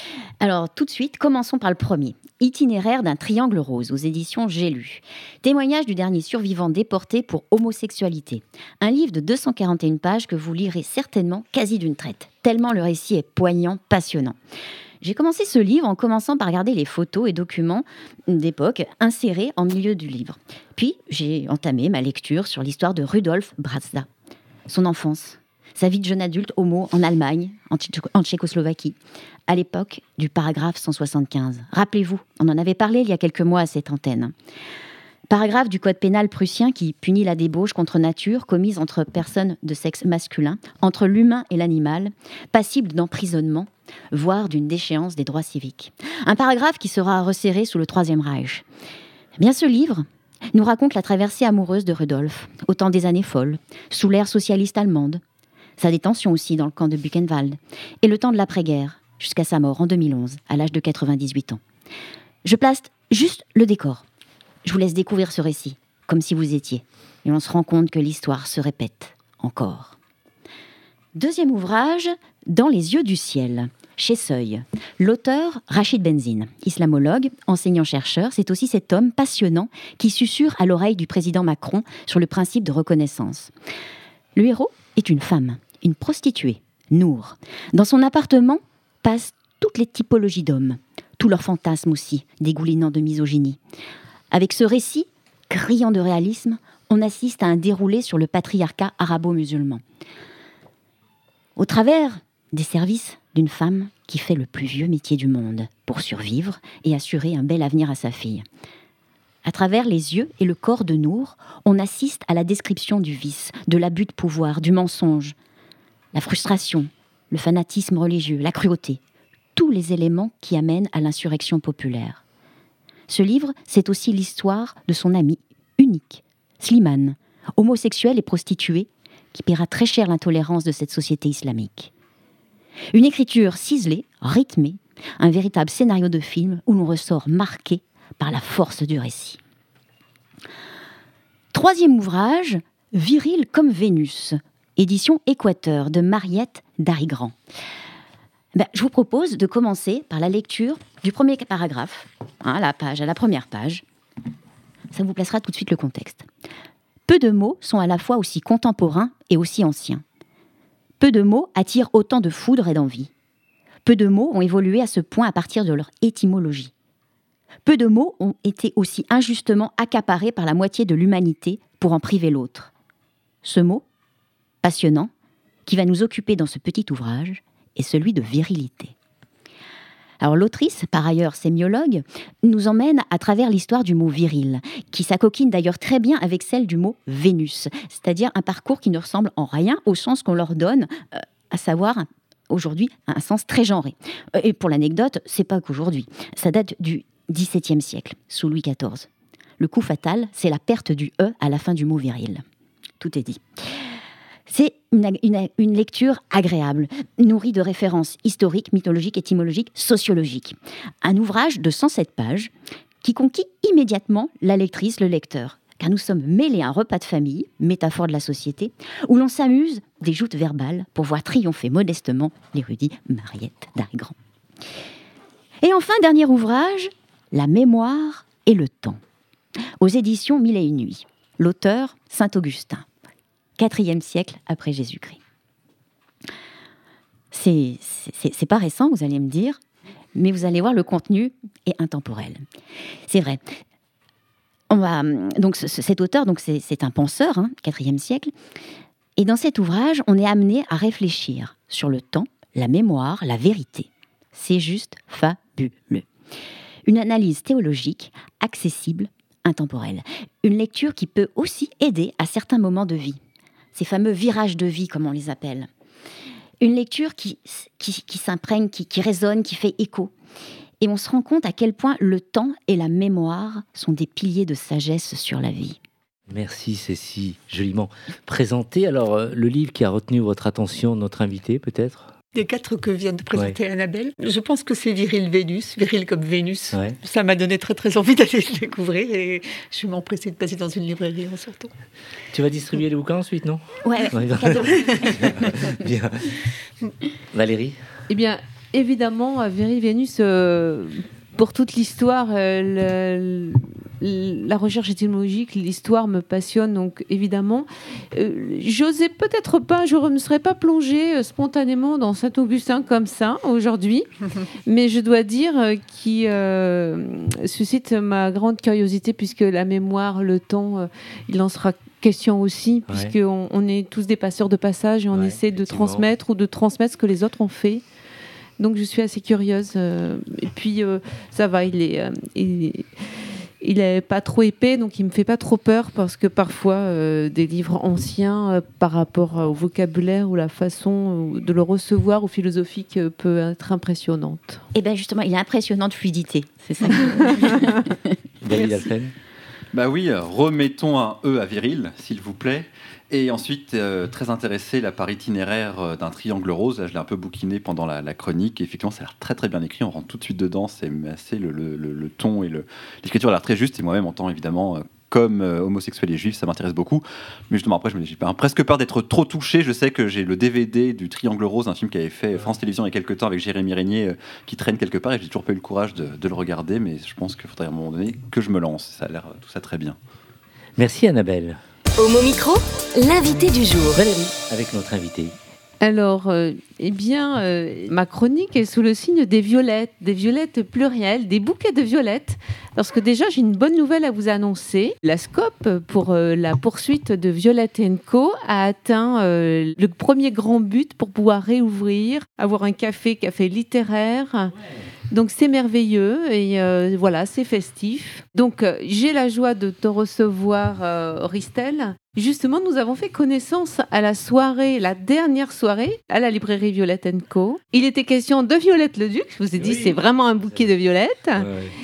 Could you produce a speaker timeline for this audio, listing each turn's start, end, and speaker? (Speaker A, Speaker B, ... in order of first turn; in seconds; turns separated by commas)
Speaker A: 0.4-14.4, Speaker A: 15.0-24.1, Speaker A: 24.7-34.3, Speaker A: 35.3-48.6, Speaker A: 49.4-55.2, Speaker A: 55.8-61.6, Speaker A: 62.4-64.0, Speaker A: 64.6-70.0, Speaker A: 71.1-83.5, Speaker A: 84.3-93.6, Speaker A: 94.3-99.8, Speaker A: 101.6-108.5, Speaker A: 109.4-115.3, Speaker A: 116.1-119.0, Speaker A: 119.5-122.2, Speaker A: 123.1-131.9, Speaker A: 132.9-139.4, Speaker A: 141.5-147.3, Speaker A: 148.5-153.8, Speaker A: 154.9-156.3, Speaker A: 157.1-160.0, Speaker A: 161.0-163.1, Speaker A: 163.8-166.7, Speaker A: 167.6-172.7, Speaker A: 173.4-173.8, Speaker A: 174.6-175.1, Speaker A: 175.7-178.9, Speaker A: 180.2-199.1, Speaker A: 199.6-202.4, Speaker A: 203.0-203.4, Speaker A: 204.5-224.2, Speaker A: 225.6-229.0, Speaker A: 229.8-232.8, Speaker A: 233.6-235.2, Speaker A: 237.3-239.6, Speaker A: 240.1-242.4, Speaker A: 243.1-243.4, Speaker A: 244.7-248.3, Speaker A: 249.2-256.1, Speaker A: 256.8-263.2, Speaker A: 263.7-265.7, Speaker A: 266.6-270.1, Speaker A: 270.8-275.8, Speaker B: 276.3-282.1, Speaker C: 282.3-291.7, Speaker B: 292.3-296.4, Speaker A: 293.8-295.7, Speaker B: 297.3-297.8, Speaker D: 298.1-314.1, Speaker D: 314.7-327.8, Speaker B: 322.9-323.1, Speaker B: 325.1-326.0, Speaker D: 328.6-332.9, Speaker D: 333.6-344.6, Speaker A: 344.7-347.8, Speaker B: 348.4-349.1, Speaker A: 348.5-348.9, Speaker E: 349.7-380.0, Speaker B: 380.8-381.6, Speaker F: 382.0-384.0, Speaker B: 383.9-385.3, Speaker D: 385.8-404.5, Speaker D: 405.1-421.5, Speaker B: 419.6-420.0, Speaker B: 421.4-421.7